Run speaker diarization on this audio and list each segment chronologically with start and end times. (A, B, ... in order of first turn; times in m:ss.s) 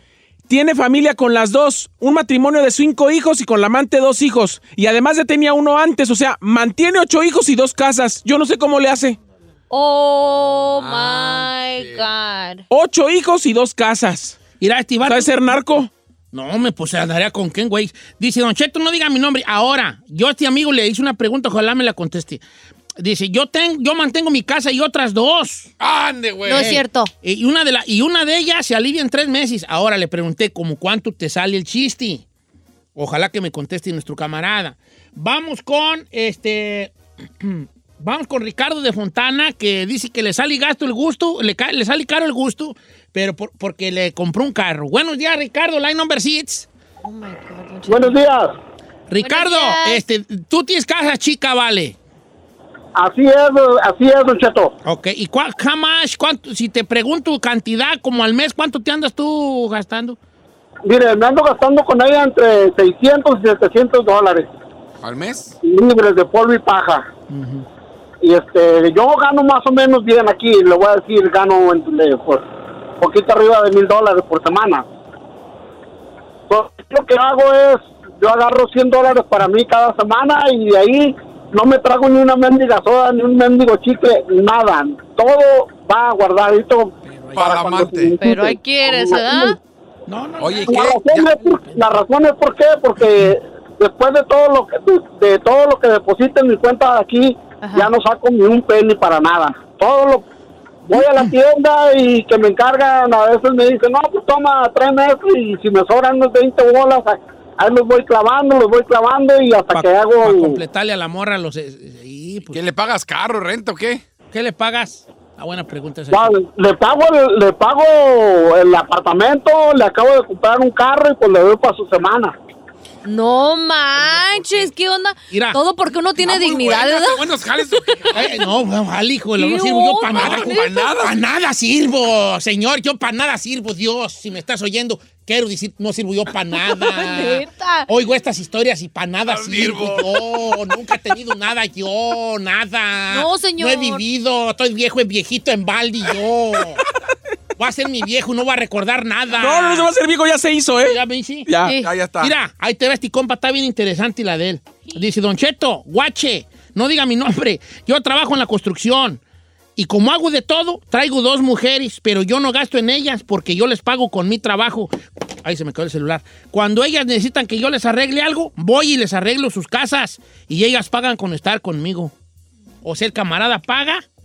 0:00.5-0:09.2 A
0:09.7-0:12.6 B
0:10.7-0:12.1 C
0:12.7-0:14.4 A
0:14.6-0:15.4 D
0:15.0-0:15.9 A
0:16.3-0:22.4 D
0:23.0-0:25.7 D
0:25.8-0:26.8 C
0:26.5-0:27.1 B
0:26.5-0:32.2 D
0:33.0-0:46.7 D
0:47.0-0:48.2 B
0:47.9-0:48.6 E
0:49.1-0:52.0 D
0:49.2-0:50.0 B
0:53.0-0:54.8 E
0:54.8-1:00.2 D
1:00.8-1:04.5 E
1:05.0-1:05.6 C
1:05.6-1:07.1 E
1:07.3-1:07.7 D
1:08.2-1:12.4 E
1:13.0-1:14.8 E
1:16.5-1:29.5 E
1:27.0-1:27.5 D
1:27.4-1:28.2 C
1:28.2-1:29.6 B
1:30.1-1:31.9 D
1:30.4-1:31.3 C
1:30.7-1:40.3 E
1:37.6-1:37.9 B
1:40.9-1:50.6 E
1:49.7-1:52.6 D
1:52.5-1:54.0 C
1:54.3-1:56.3 D
1:56.1-2:02.4 E
2:03.0-2:07.3 B
2:05.3-2:05.6 D
2:06.2-2:08.3 C
2:08.1-2:26.8 D
2:09.4-2:10.9 B
2:10.1-2:11.2 C
2:16.7-2:17.9 B
2:19.3-2:20.7 C
2:23.1-2:24.0 B
2:27.6-2:29.9 D
2:29.4-2:31.8 A
2:30.8-2:31.5 D
2:31.6-2:31.9 B
2:31.7-2:32.4 C
2:32.2-2:39.2 D
2:39.8-2:52.1 D
2:52.8-2:54.0 D